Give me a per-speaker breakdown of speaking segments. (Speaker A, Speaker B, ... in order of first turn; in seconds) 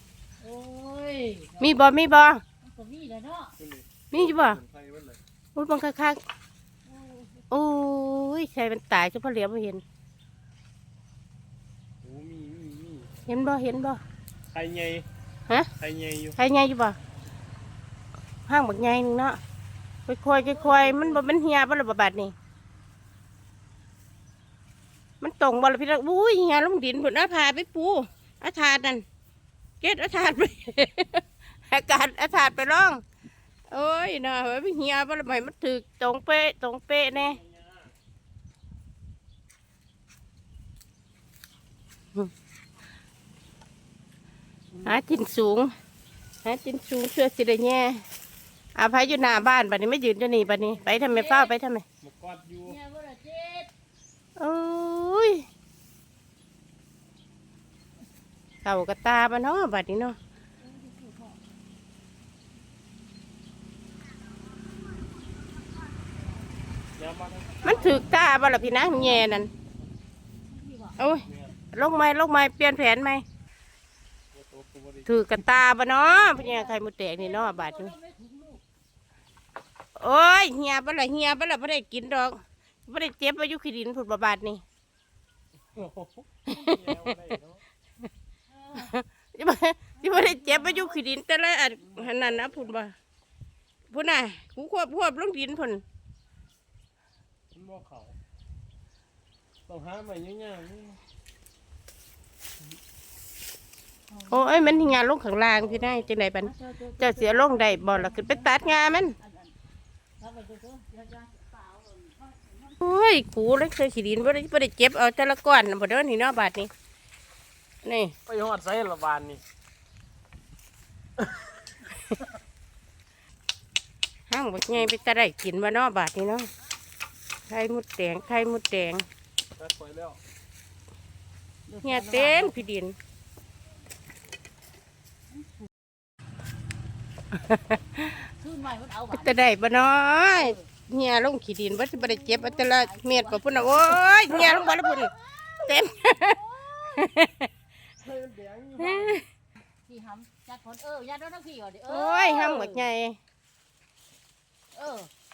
Speaker A: 0.4-1.9, 2.6-3.5, 6.9-7.4, 20.3-21.2, 44.7-45.0, 49.1-49.4, 50.7-51.5, 52.6-53.7, 60.6-61.4, 67.7-68.0, 68.6-69.3, 70.5-71.0, 76.0-78.6, 88.5-88.9, 90.0-91.0, 104.1-105.0, 106.4-109.5, 110.2-112.8, 131.7-132.6, 135.3-135.7, 138.2-139.4, 140.4-140.7, 141.7-147.1, 148.0-149.2, 149.8-152.8, 154.7-155.1
Speaker B: 1.6-2.4, 4.1-4.6, 5.5-6.2, 7.5-9.8, 13.2-14.0, 16.4-16.9, 18.5-19.4, 20.1-22.3, 25.2-29.0, 29.8-33.0, 33.7-37.4, 44.8-45.7, 46.4-48.0, 48.8-51.8, 54.4-55.4, 58.6-60.2, 67.6-69.5, 71.0-73.2, 75.1-77.9, 80.0-84.6, 86.5-87.0, 88.8-92.9, 93.9-95.8, 104.3-109.2, 112.8-116.7, 117.8-118.2, 124.3-126.5, 127.5-129.1, 131.8-132.9, 137.5-138.1, 139.1-146.4, 146.9-147.5, 148.8-149.2, 151.9-153.2
Speaker C: 3.6-5.2, 12.0-13.1, 14.5-15.1, 15.8-16.4, 37.2-37.9, 52.0-52.8, 67.0-68.0, 71.1-71.5, 74.3-75.1, 85.8-87.6, 92.0-92.7, 97.5-98.2, 99.7-101.0, 105.6-106.1, 118.3-119.4, 129.6-130.2